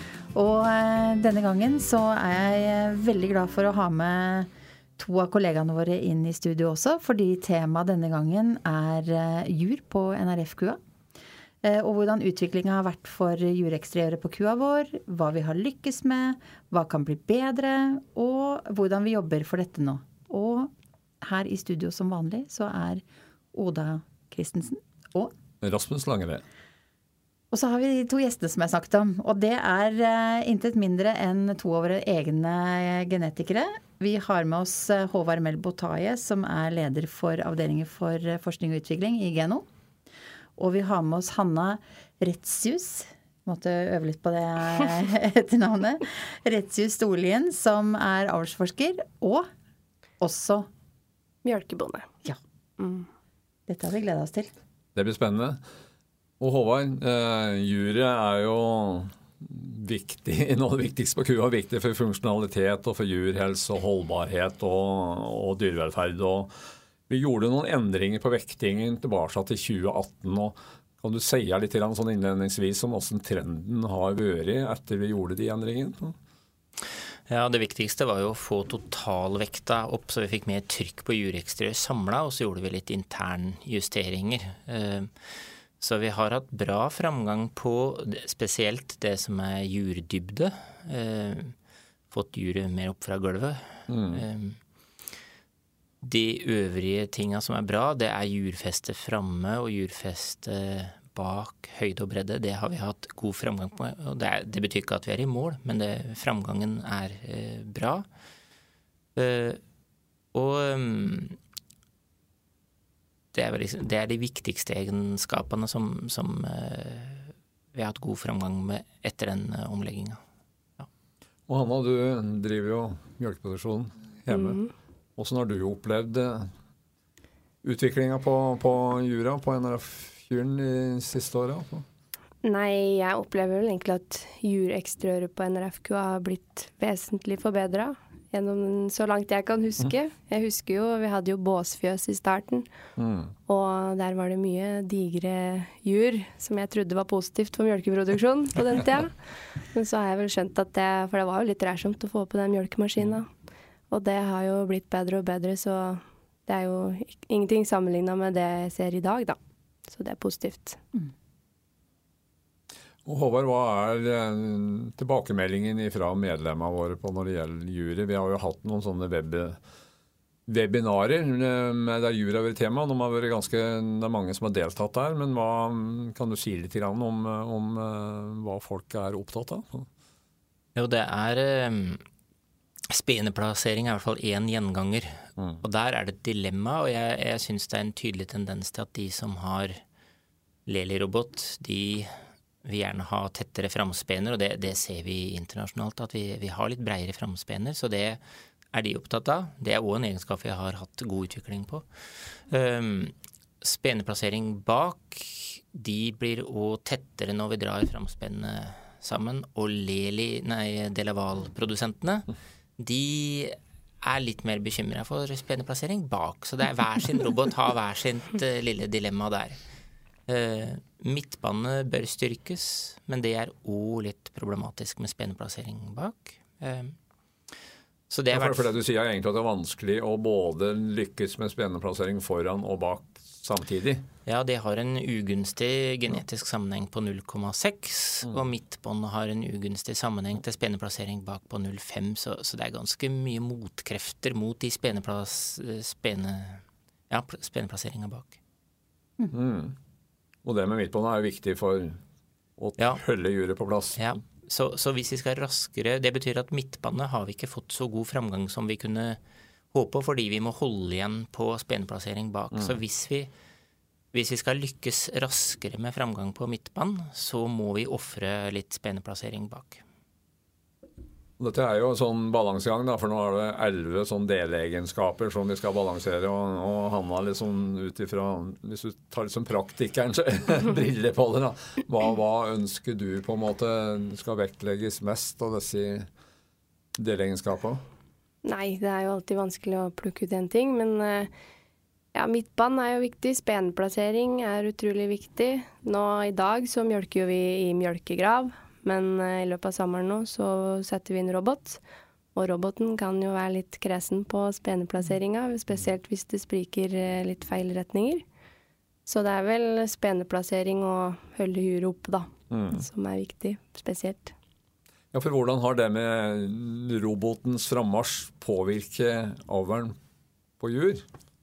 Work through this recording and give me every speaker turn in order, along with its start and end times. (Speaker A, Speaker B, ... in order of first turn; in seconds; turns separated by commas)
Speaker A: 0.3-10.8, Speaker A: 11.6-25.3, Speaker B: 25.6-26.4, Speaker A: 27.5-39.6, Speaker A: 40.6-49.5, Speaker A: 50.2-50.7, Speaker C: 51.4-52.1, Speaker C: 52.8-53.1, Speaker A: 53.7-54.5, Speaker B: 54.9-55.6, Speaker B: 56.4-66.5, Speaker B: 67.1-76.1, Speaker D: 77.3-91.5, Speaker D: 92.1-94.6, Speaker B: 93.9-94.2, Speaker D: 96.0-108.0, Speaker D: 109.2-109.6, Speaker D: 110.3-111.4, Speaker D: 113.3-120.2, Speaker B: 121.5-124.6, Speaker C: 124.3-124.7, Speaker B: 125.2-126.5, Speaker B: 127.6-131.9, Speaker C: 132.4-142.7, Speaker B: 143.0-143.3, Speaker C: 143.5-153.3, Speaker C: 153.9-160.8, Speaker B: 163.1-169.6, Speaker B: 170.5-179.9, Speaker D: 180.8-182.0, Speaker D: 182.9-189.8, Speaker D: 190.7-198.2, Speaker D: 198.7-212.3, Speaker D: 212.8-219.6, Speaker D: 220.3-227.0, Speaker D: 228.1-228.7, Speaker B: 228.3-234.1, Speaker D: 234.2-248.4, Speaker B: 249.3-249.8, Speaker B: 250.4-252.0, Speaker B: 252.6-254.0, Speaker D: 252.8-253.0, Speaker D: 254.0-259.2, Speaker D: 259.7-263.3, Speaker D: 264.1-269.8, Speaker B: 271.4-286.1, Speaker B: 287.0-287.8, Speaker C: 288.4-291.3, Speaker C: 292.1-301.8, Speaker C: 302.4-308.2, Speaker C: 309.1-314.3, Speaker B: 312.5-312.8, Speaker B: 315.1-319.9, Speaker B: 320.6-321.0